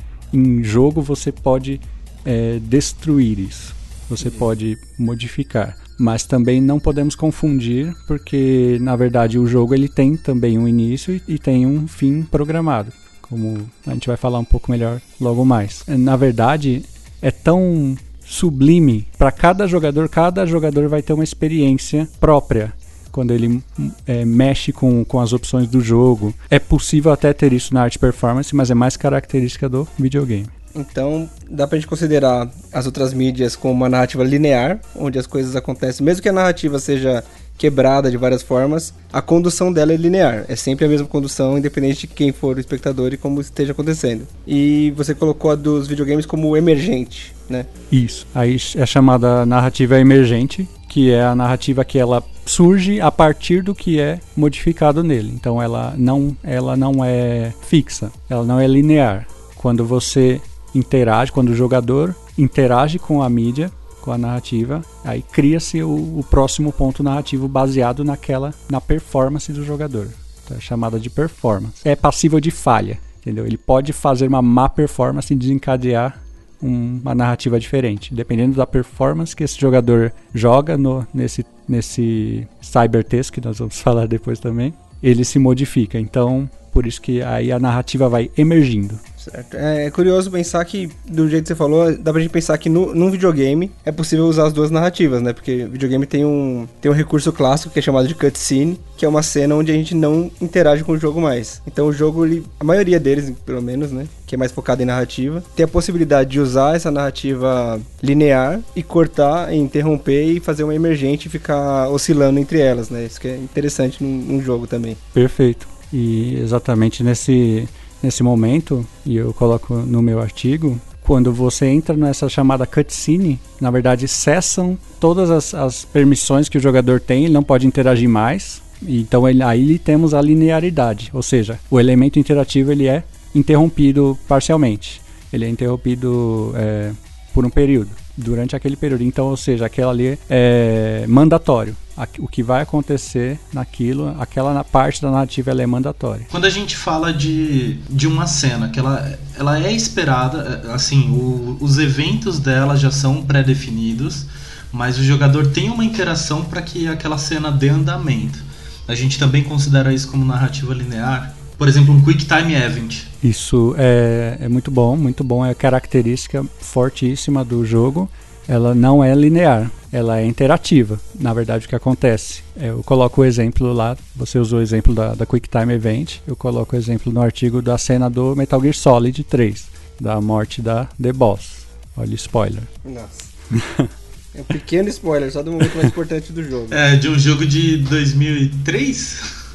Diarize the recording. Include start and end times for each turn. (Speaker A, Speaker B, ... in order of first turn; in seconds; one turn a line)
Speaker A: 0.3-30.5
Speaker B: 30.8-47.7
Speaker A: 47.9-89.0
Speaker B: 89.2-115.0
Speaker A: 115.1-146.3
Speaker C: 146.3-163.1
Speaker A: 163.2-182.7
Speaker B: 182.8-183.3
Speaker A: 183.5-183.9
Speaker B: 184.3-186.8
Speaker C: 186.7-189.3